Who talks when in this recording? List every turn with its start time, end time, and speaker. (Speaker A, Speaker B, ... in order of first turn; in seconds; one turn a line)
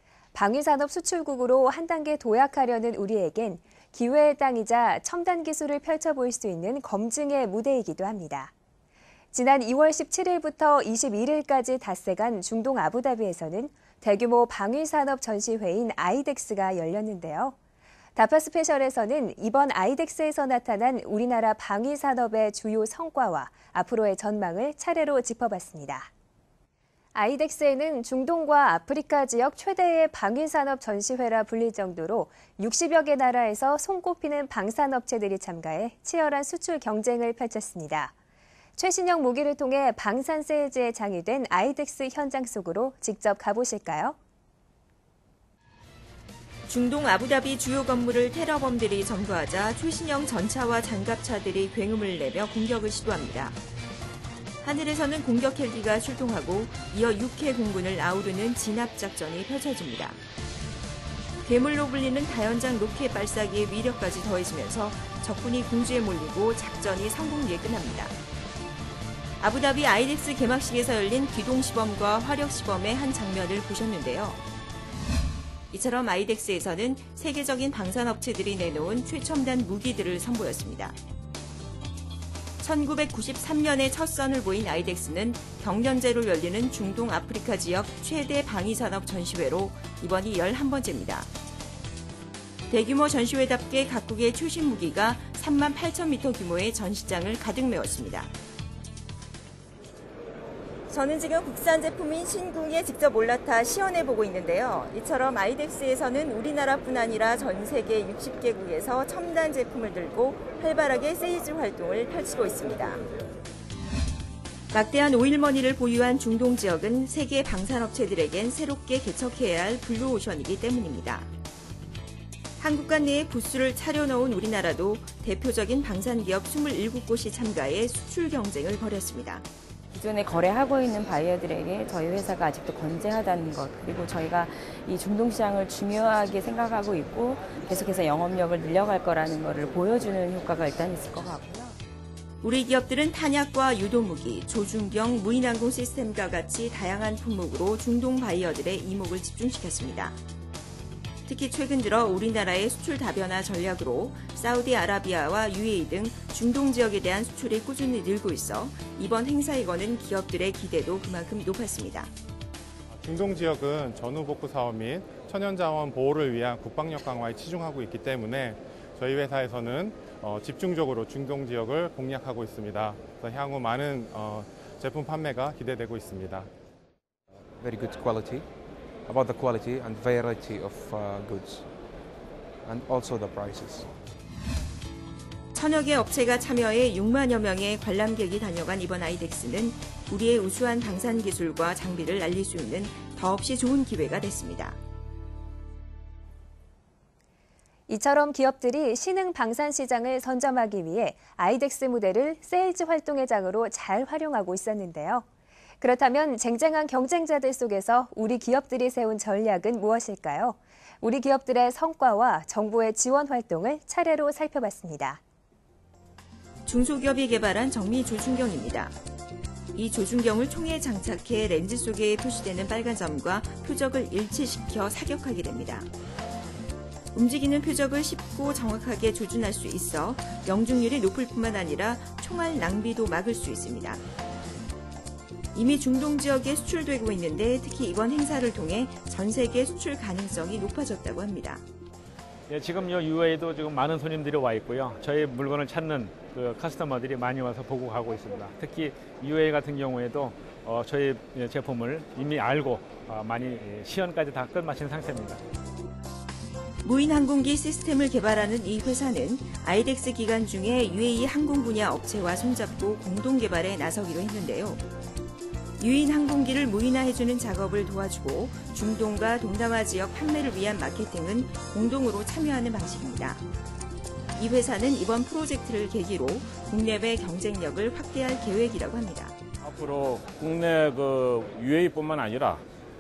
Speaker A: 0.3-8.5
Speaker A: 9.3-17.5
Speaker A: 18.1-26.1
Speaker A: 27.1-38.1
Speaker A: 38.8-44.2
Speaker B: 46.7-53.6
Speaker B: 54.6-60.2
Speaker B: 61.4-68.1
Speaker B: 69.4-74.4
Speaker B: 75.7-81.0
Speaker B: 82.6-91.3
Speaker B: 92.7-98.3
Speaker B: 100.9-113.0
Speaker B: 114.7-121.3
Speaker B: 122.6-129.4
Speaker C: 129.9-141.7
Speaker B: 142.4-150.2
Speaker B: 151.3-162.1
Speaker D: 163.0-176.5
Speaker E: 177.6-178.5
Speaker E: 179.1-181.7
Speaker E: 182.6-183.9
Speaker B: 185.5-194.8
Speaker A: 197.9-205.2
Speaker A: 205.8-215.2
Speaker B: 216.7-218.9
Speaker B: 219.7-225.9
Speaker B: 227.1-234.0
Speaker B: 235.5-241.6
Speaker F: 242.5-255.4
Speaker B: 256.8-264.8
Speaker B: 265.8-273.4
Speaker B: 274.4-279.3
Speaker G: 279.6-282.6